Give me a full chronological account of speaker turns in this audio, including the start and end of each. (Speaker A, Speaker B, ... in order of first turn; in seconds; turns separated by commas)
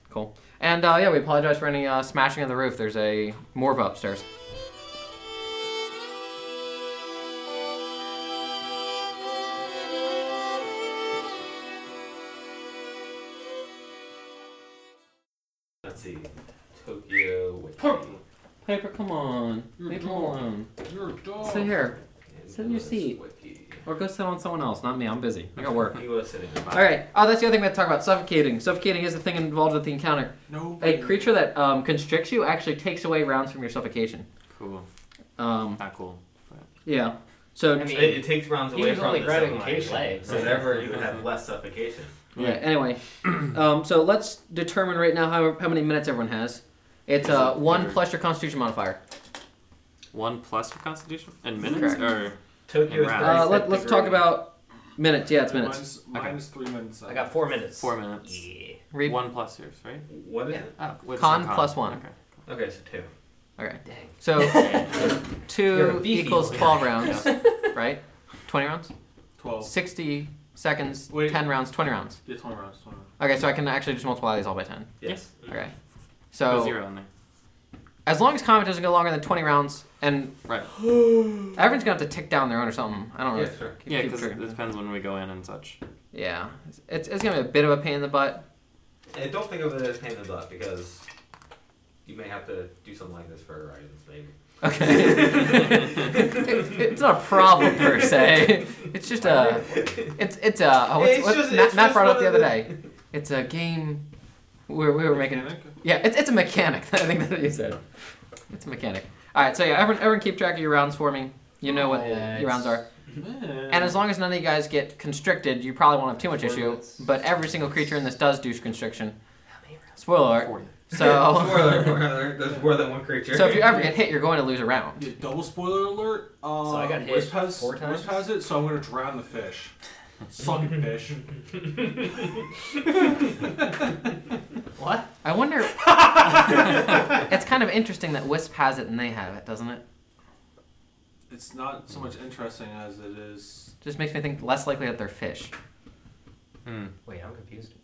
Speaker A: 0.1-4.2, Speaker B: 15.8-18.2, Speaker A: 18.6-20.7, Speaker C: 19.9-20.3, Speaker C: 20.8-21.7, Speaker A: 21.4-22.0, Speaker B: 22.3-23.8, Speaker A: 22.5-23.2, Speaker A: 23.8-26.0, Speaker B: 25.9-26.9, Speaker A: 26.7-34.2, Speaker C: 30.5-31.3, Speaker D: 34.5-34.9, Speaker A: 35.4-35.8, Speaker D: 35.8-36.6, Speaker A: 36.8-38.1, Speaker E: 37.7-40.7, Speaker B: 37.9-42.1, Speaker D: 40.3-41.2, Speaker D: 42.3-42.7, Speaker A: 42.4-49.0, Speaker D: 47.2-48.0, Speaker D: 50.1-53.4, Speaker A: 51.6-52.0, Speaker B: 52.7-54.2, Speaker A: 53.2-55.9, Speaker C: 53.4-53.6, Speaker C: 55.4-57.3, Speaker D: 56.1-56.4, Speaker E: 57.0-58.8, Speaker D: 57.8-60.1, Speaker A: 58.9-59.2, Speaker B: 60.1-60.7, Speaker D: 60.8-62.1, Speaker A: 61.1-62.0, Speaker B: 62.5-63.1, Speaker A: 63.6-64.8, Speaker E: 63.9-65.0, Speaker D: 64.5-64.9, Speaker A: 65.4-68.9, Speaker E: 65.7-67.7, Speaker D: 67.0-67.4, Speaker C: 69.4-69.7, Speaker A: 69.6-72.2, Speaker C: 71.1-71.5, Speaker C: 72.2-73.1, Speaker A: 73.2-74.9, Speaker B: 75.0-75.5, Speaker A: 75.5-75.7, Speaker A: 76.3-76.8, Speaker D: 76.4-77.1, Speaker A: 78.0-80.3, Speaker A: 81.5-84.5, Speaker B: 83.3-83.8, Speaker D: 83.9-85.8, Speaker A: 86.1-88.4, Speaker B: 89.1-91.0, Speaker B: 92.0-96.8, Speaker A: 94.6-104.0, Speaker B: 97.6-98.5, Speaker B: 99.2-100.2, Speaker B: 100.9-102.8, Speaker A: 104.7-107.8, Speaker C: 105.1-105.7, Speaker A: 108.5-112.8, Speaker E: 111.6-112.8, Speaker C: 113.2-114.0, Speaker A: 113.7-119.2, Speaker A: 120.0-121.9, Speaker D: 120.2-120.7, Speaker B: 120.9-123.8, Speaker A: 123.3-125.0, Speaker C: 123.4-124.0, Speaker C: 125.0-129.7, Speaker E: 126.6-128.3, Speaker C: 130.3-131.2, Speaker B: 131.6-132.3, Speaker E: 134.8-135.1, Speaker A: 135.2-136.6, Speaker C: 135.8-136.9, Speaker A: 137.2-139.8, Speaker C: 141.3-143.7, Speaker A: 143.8-145.5, Speaker D: 146.6-146.9, Speaker E: 147.0-147.7